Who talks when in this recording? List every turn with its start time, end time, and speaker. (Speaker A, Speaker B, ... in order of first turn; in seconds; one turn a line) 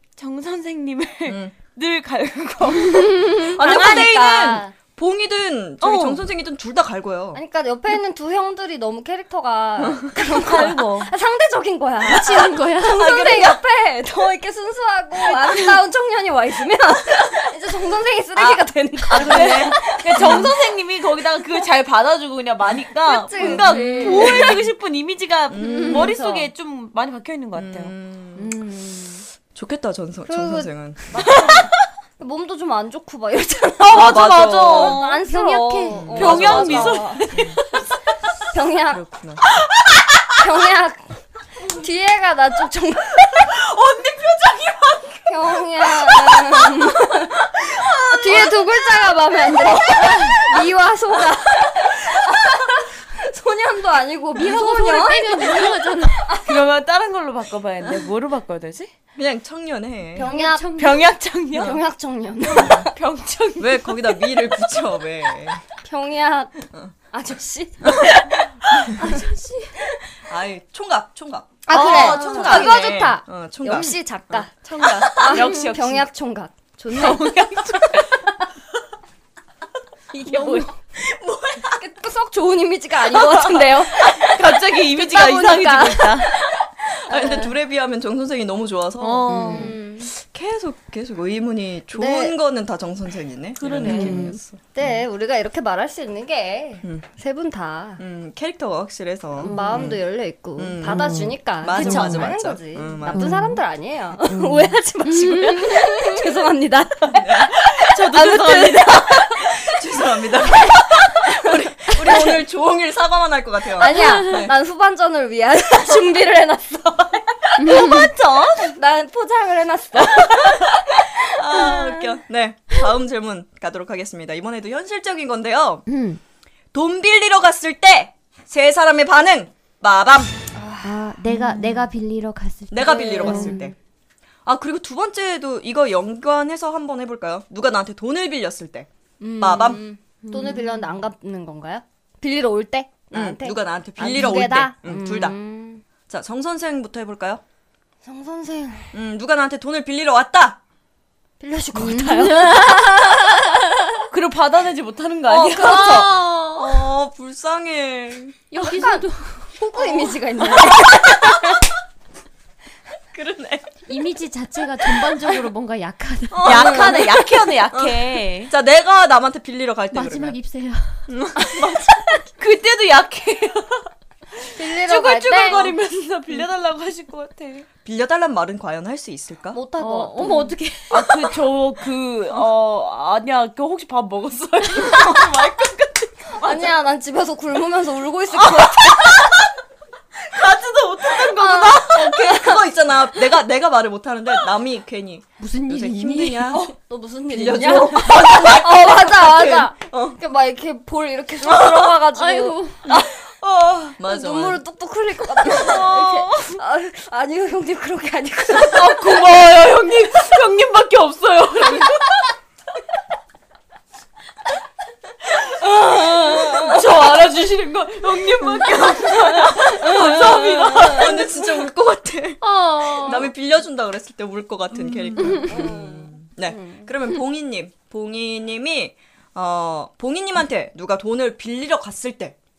Speaker A: 0.2-3.2
Speaker B: 1.3-1.6
Speaker B: 3.4-7.4
Speaker C: 3.5-4.7
Speaker A: 5.8-6.3
Speaker C: 7.3-20.5
Speaker B: 9.8-10.1
Speaker A: 10.3-11.1
Speaker D: 12.0-13.4
Speaker B: 12.8-13.6
Speaker B: 18.4-20.5
Speaker A: 19.1-27.9
Speaker C: 23.1-24.6
Speaker B: 23.4-24.6
Speaker B: 25.5-26.1
Speaker D: 25.7-26.1
Speaker C: 25.9-26.4
Speaker B: 27.5-28.6
Speaker D: 28.4-29.2
Speaker B: 29.5-31.3
Speaker C: 30.3-37.3
Speaker A: 31.2-31.6
Speaker A: 33.8-35.3
Speaker B: 33.9-35.0
Speaker D: 35.2-36.8
Speaker B: 35.9-37.6
Speaker A: 36.1-37.8
Speaker C: 38.5-39.0
Speaker B: 38.9-39.4
Speaker A: 39.6-40.3
Speaker C: 40.4-43.5
Speaker A: 43.4-45.3
Speaker C: 45.3-47.4
Speaker A: 46.1-46.9
Speaker A: 47.5-48.6
Speaker C: 48.1-56.5
Speaker A: 49.6-50.3
Speaker D: 50.0-50.3
Speaker D: 54.4-56.3
Speaker A: 56.4-58.9
Speaker B: 59.1-60.3
Speaker C: 60.1-61.0
Speaker D: 60.2-61.0
Speaker A: 60.8-61.8
Speaker C: 61.5-62.9
Speaker A: 62.5-64.3
Speaker B: 62.5-62.9
Speaker B: 63.6-65.6
Speaker C: 65.8-66.5
Speaker C: 67.1-68.2
Speaker B: 67.8-68.3
Speaker D: 69.0-69.7
Speaker B: 70.2-75.1
Speaker C: 71.7-74.5
Speaker A: 71.7-72.8
Speaker A: 74.6-76.0
Speaker C: 75.1-77.3
Speaker A: 76.9-78.4
Speaker C: 80.1-80.8
Speaker A: 80.3-81.5
Speaker C: 81.6-86.4
Speaker A: 83.6-86.5
Speaker C: 87.1-87.5
Speaker B: 87.1-94.9
Speaker A: 89.0-89.7
Speaker D: 89.3-89.7
Speaker C: 89.5-90.1
Speaker C: 91.9-92.4
Speaker A: 93.6-94.3
Speaker D: 93.8-94.4
Speaker C: 94.7-98.0
Speaker B: 98.0-100.0
Speaker C: 99.4-109.3
Speaker D: 99.4-100.0
Speaker B: 100.6-103.4
Speaker D: 100.8-102.2
Speaker A: 101.8-102.3
Speaker D: 103.1-103.6
Speaker D: 104.3-106.2
Speaker B: 107.1-107.6
Speaker A: 107.6-109.2
Speaker B: 108.7-114.5
Speaker C: 111.3-112.4
Speaker C: 113.8-117.9
Speaker D: 117.6-118.1
Speaker A: 117.7-118.7
Speaker C: 118.7-122.2
Speaker B: 121.2-125.9
Speaker D: 125.9-126.2
Speaker B: 126.7-130.3
Speaker C: 130.5-131.1
Speaker D: 130.8-133.7
Speaker A: 131.3-131.9
Speaker B: 132.7-133.7
Speaker C: 132.8-133.7
Speaker B: 134.4-138.9
Speaker C: 139.2-145.8
Speaker B: 139.4-139.8
Speaker D: 140.2-141.0
Speaker B: 143.1-145.4
Speaker B: 146.1-147.4
Speaker C: 148.0-148.9
Speaker B: 148.9-150.6
Speaker C: 151.4-152.9
Speaker D: 151.7-153.2
Speaker A: 154.1-156.4
Speaker C: 155.3-156.3
Speaker B: 155.5-158.4
Speaker D: 158.5-160.1
Speaker C: 158.6-161.6
Speaker B: 163.1-163.7
Speaker D: 163.9-167.0
Speaker B: 166.3-170.4
Speaker A: 166.4-168.5
Speaker C: 166.5-166.9
Speaker D: 169.9-171.1
Speaker B: 171.1-172.1
Speaker C: 171.4-172.1
Speaker A: 172.4-173.9
Speaker C: 174.5-175.7
Speaker A: 174.6-177.7
Speaker B: 177.8-179.6
Speaker C: 179.5-180.6
Speaker A: 179.8-186.7
Speaker D: 180.2-180.6
Speaker C: 186.3-189.4
Speaker A: 190.2-192.0
Speaker C: 191.2-192.7
Speaker B: 191.9-196.7
Speaker D: 195.4-196.6
Speaker C: 196.5-203.1
Speaker B: 197.3-200.2
Speaker D: 202.1-202.8
Speaker B: 202.8-203.1
Speaker A: 203.4-203.8
Speaker B: 203.9-204.6
Speaker C: 204.0-209.2
Speaker A: 205.5-206.6
Speaker B: 205.5-205.8
Speaker A: 208.5-212.3
Speaker A: 215.5-221.2
Speaker C: 215.9-216.8
Speaker B: 219.3-232.4
Speaker C: 219.8-220.9
Speaker D: 222.4-223.3
Speaker D: 225.1-225.6
Speaker C: 225.4-226.9